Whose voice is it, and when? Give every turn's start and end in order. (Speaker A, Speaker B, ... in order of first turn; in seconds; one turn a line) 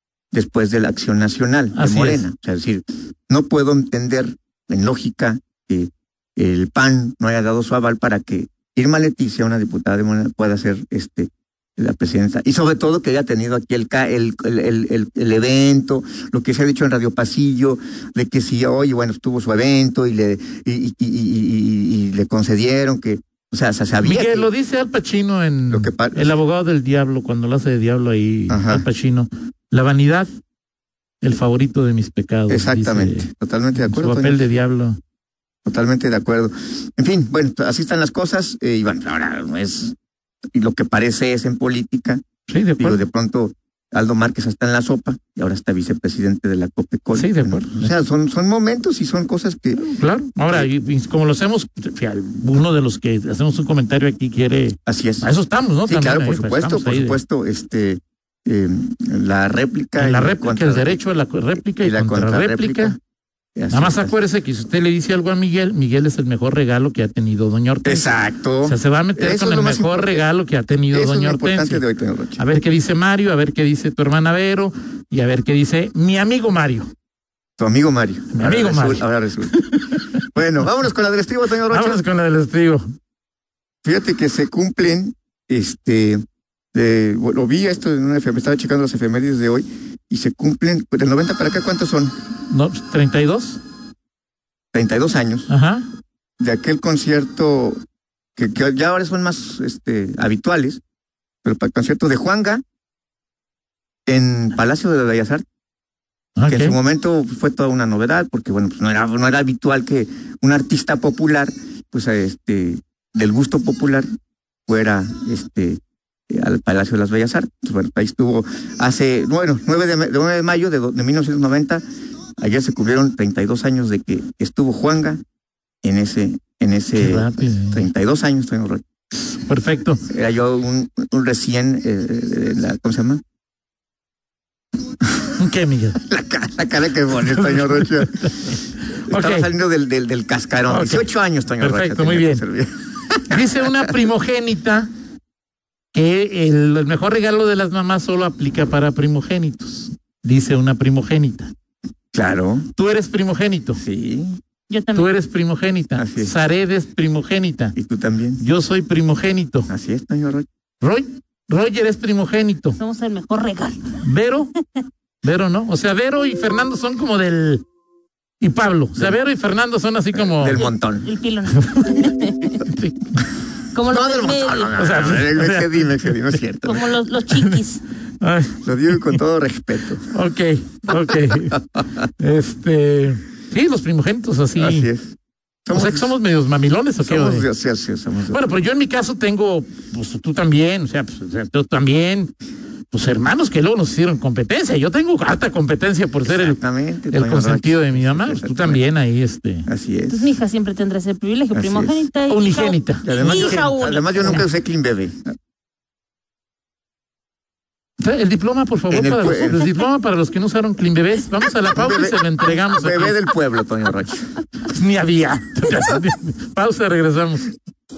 Speaker A: 0.3-24.5
Speaker B: 1.7-2.2
Speaker B: 24.0-30.3
Speaker A: 25.7-26.4
Speaker A: 28.5-28.9
Speaker B: 31.2-35.0
Speaker A: 32.5-34.5
Speaker A: 35.7-40.0
Speaker A: 40.5-42.2
Speaker B: 42.5-43.0
Speaker A: 42.8-49.9
Speaker B: 47.1-47.9
Speaker B: 49.8-57.2
Speaker A: 54.9-61.0
Speaker B: 60.0-63.0
Speaker A: 61.8-63.0
Speaker A: 63.5-64.1
Speaker B: 63.7-71.8
Speaker A: 67.8-70.2
Speaker A: 70.9-72.4
Speaker B: 72.4-76.9
Speaker A: 77.6-82.0
Speaker B: 78.3-80.1
Speaker B: 81.7-82.9
Speaker A: 83.8-86.2
Speaker A: 86.7-92.1
Speaker B: 92.5-93.6
Speaker A: 94.7-95.5
Speaker B: 95.5-95.9
Speaker A: 96.4-97.8
Speaker A: 98.4-100.8
Speaker A: 101.4-102.6
Speaker A: 104.1-105.4
Speaker B: 106.4-106.8
Speaker A: 106.5-114.1
Speaker A: 114.7-121.8
Speaker A: 122.4-125.2
Speaker A: 125.8-128.8
Speaker B: 127.0-127.9
Speaker B: 129.3-130.0
Speaker A: 130.1-133.2
Speaker B: 135.4-136.0
Speaker A: 136.0-138.5
Speaker B: 137.1-139.5
Speaker A: 139.1-143.9
Speaker B: 140.7-141.1
Speaker B: 141.6-142.4
Speaker B: 143.3-144.9
Speaker B: 145.9-151.5
Speaker A: 152.1-152.7
Speaker B: 152.8-153.8
Speaker A: 153.8-154.4
Speaker C: 154.7-155.1
Speaker B: 154.9-157.8
Speaker A: 156.0-156.3
Speaker A: 157.8-158.4
Speaker B: 158.4-159.7
Speaker A: 159.7-160.5
Speaker B: 160.8-162.8
Speaker C: 162.8-163.8
Speaker B: 164.0-164.5
Speaker B: 165.2-167.6
Speaker B: 168.4-170.7
Speaker A: 170.1-171.1
Speaker C: 170.5-172.6
Speaker B: 171.6-173.3
Speaker C: 173.7-174.8
Speaker A: 173.9-176.9
Speaker B: 174.7-176.4
Speaker C: 176.6-177.8
Speaker B: 178.2-179.2
Speaker A: 178.6-180.1
Speaker B: 180.1-181.6
Speaker B: 182.2-184.9
Speaker A: 184.6-186.1
Speaker B: 185.7-187.5
Speaker A: 187.0-188.6
Speaker B: 188.3-192.3
Speaker B: 192.9-199.7
Speaker A: 196.2-198.8
Speaker A: 199.7-200.3
Speaker C: 200.1-204.4
Speaker A: 201.5-202.0
Speaker B: 202.3-204.5
Speaker A: 203.1-205.3
Speaker B: 208.0-213.2
Speaker A: 208.9-209.7
Speaker A: 211.7-214.3
Speaker B: 214.7-217.5